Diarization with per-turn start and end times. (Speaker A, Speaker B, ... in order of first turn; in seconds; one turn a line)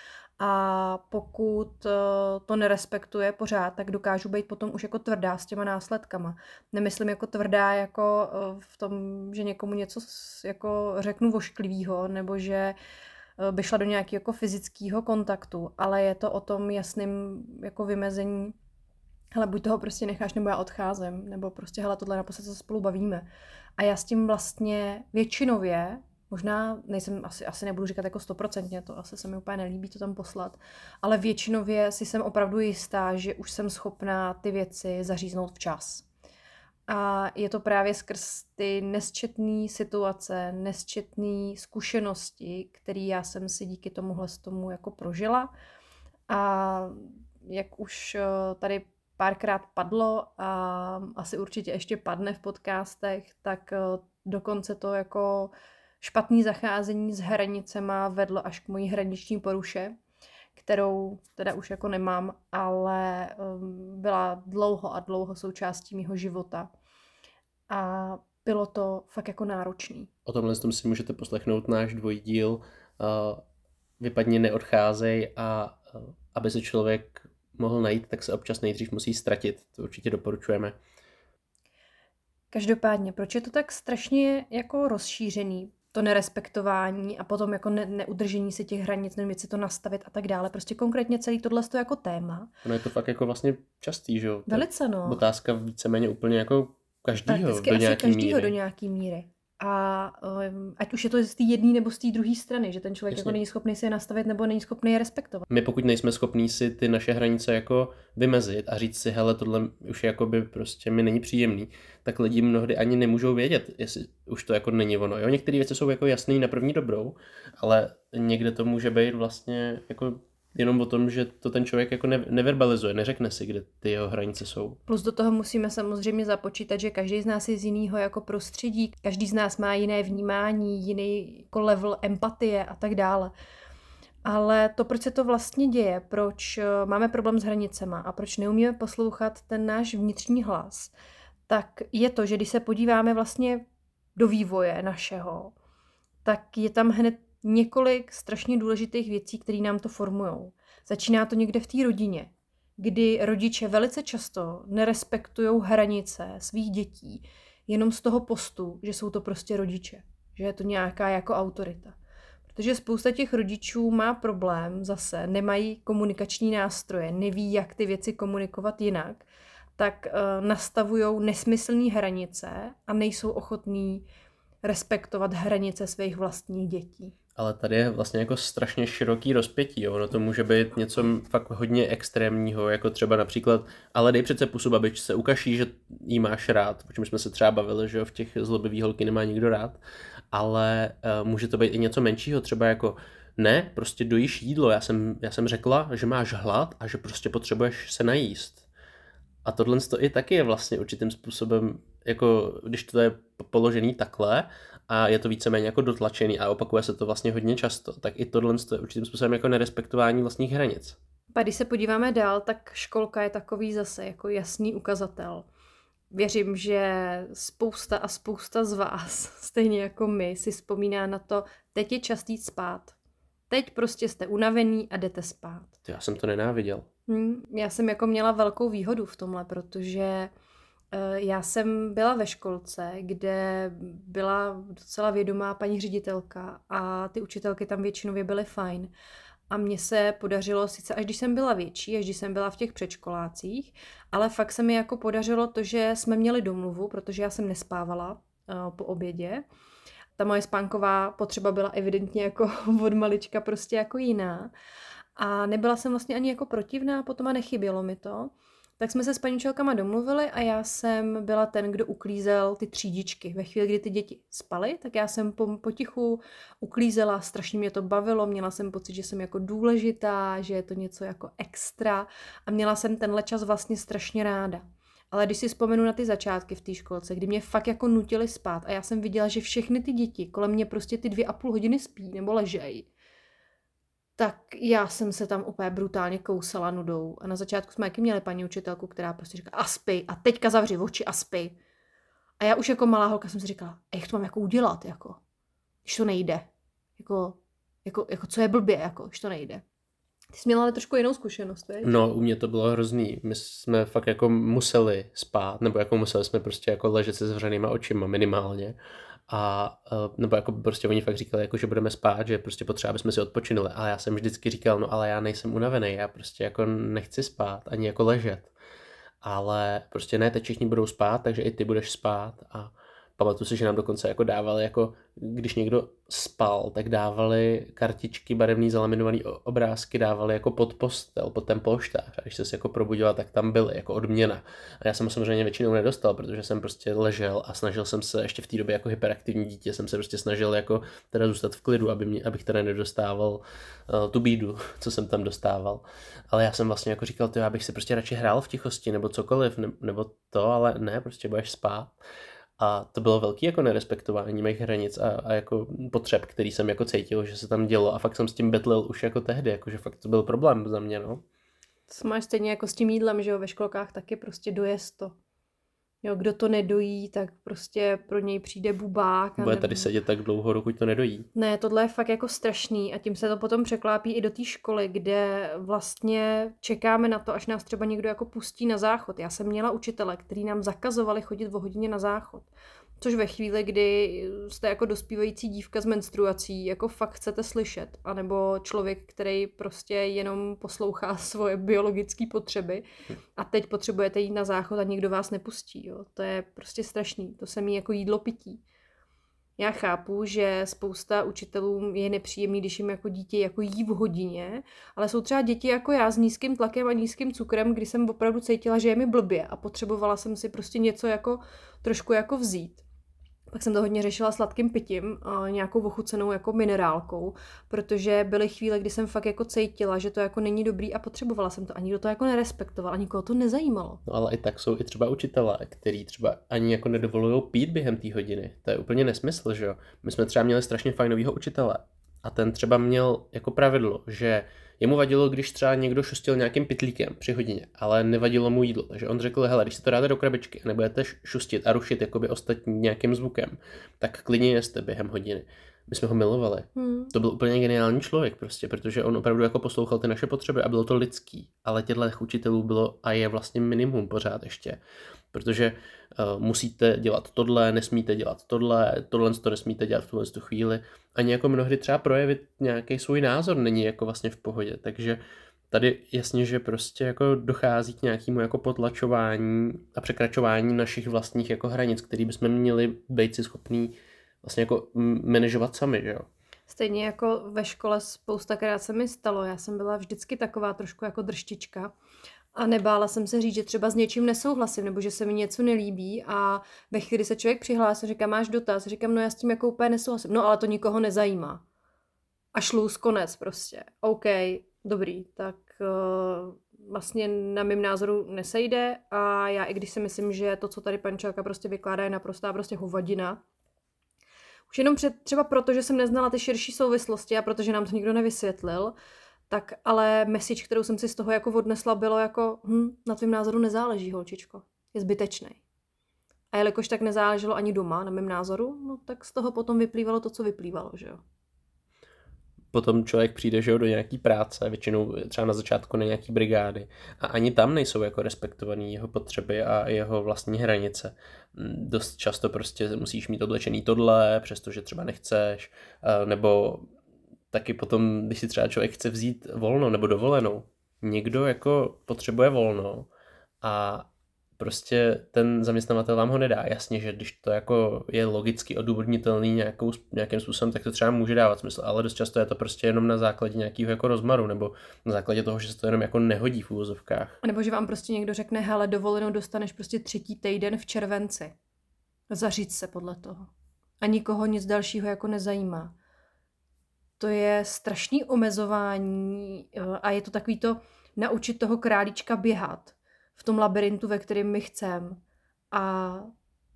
Speaker A: 0.4-12.8
Speaker A: 13.4-18.6
Speaker A: 19.3-23.2
Speaker A: 23.8-36.0
Speaker A: 36.9-45.5
Speaker A: 46.3-60.0
Speaker A: 60.5-66.7
Speaker A: 67.7-70.1
Speaker B: 70.2-73.4
Speaker B: 74.0-80.8
Speaker A: 82.5-92.5
Speaker B: 92.6-98.5
Speaker A: 94.5-95.2
Speaker A: 97.3-105.5
Speaker B: 103.1-103.4
Speaker B: 105.5-124.8
Speaker A: 124.9-133.3
Speaker A: 134.2-140.9
Speaker A: 141.5-143.6
Speaker A: 144.2-145.5
Speaker A: 146.2-161.9
Speaker A: 162.5-169.2
Speaker A: 169.8-174.1
Speaker A: 174.6-177.1
Speaker B: 177.3-189.8
Speaker B: 190.3-198.7
Speaker B: 199.4-211.0
Speaker A: 211.3-215.5
Speaker A: 216.1-222.9
Speaker A: 223.5-225.7
Speaker B: 225.8-226.8
Speaker A: 227.1-230.3
Speaker A: 230.9-238.9
Speaker A: 239.5-249.4
Speaker A: 250.2-254.5
Speaker A: 255.2-282.9
Speaker A: 284.2-291.5
Speaker A: 292.4-295.2
Speaker A: 295.8-299.6
Speaker A: 300.3-302.0
Speaker B: 301.8-308.8
Speaker B: 309.3-318.5
Speaker B: 319.2-351.9
Speaker B: 352.6-361.2
Speaker A: 361.9-365.1
Speaker A: 366.0-369.9
Speaker B: 369.4-371.3
Speaker A: 371.3-382.5
Speaker A: 383.0-392.8
Speaker A: 393.4-398.6
Speaker A: 399.6-412.8
Speaker A: 413.5-424.0
Speaker B: 424.1-454.8
Speaker A: 446.8-447.1
Speaker B: 455.3-465.2
Speaker B: 465.7-476.3
Speaker A: 476.7-481.9
Speaker A: 482.5-491.6
Speaker A: 492.5-503.4
Speaker A: 504.7-508.9
Speaker A: 509.5-515.6
Speaker A: 516.5-521.2
Speaker B: 522.7-536.9
Speaker B: 537.5-543.1
Speaker B: 543.6-557.4
Speaker A: 557.4-561.5
Speaker A: 562.3-563.5
Speaker A: 564.0-566.0
Speaker A: 567.2-575.2
Speaker A: 575.7-576.3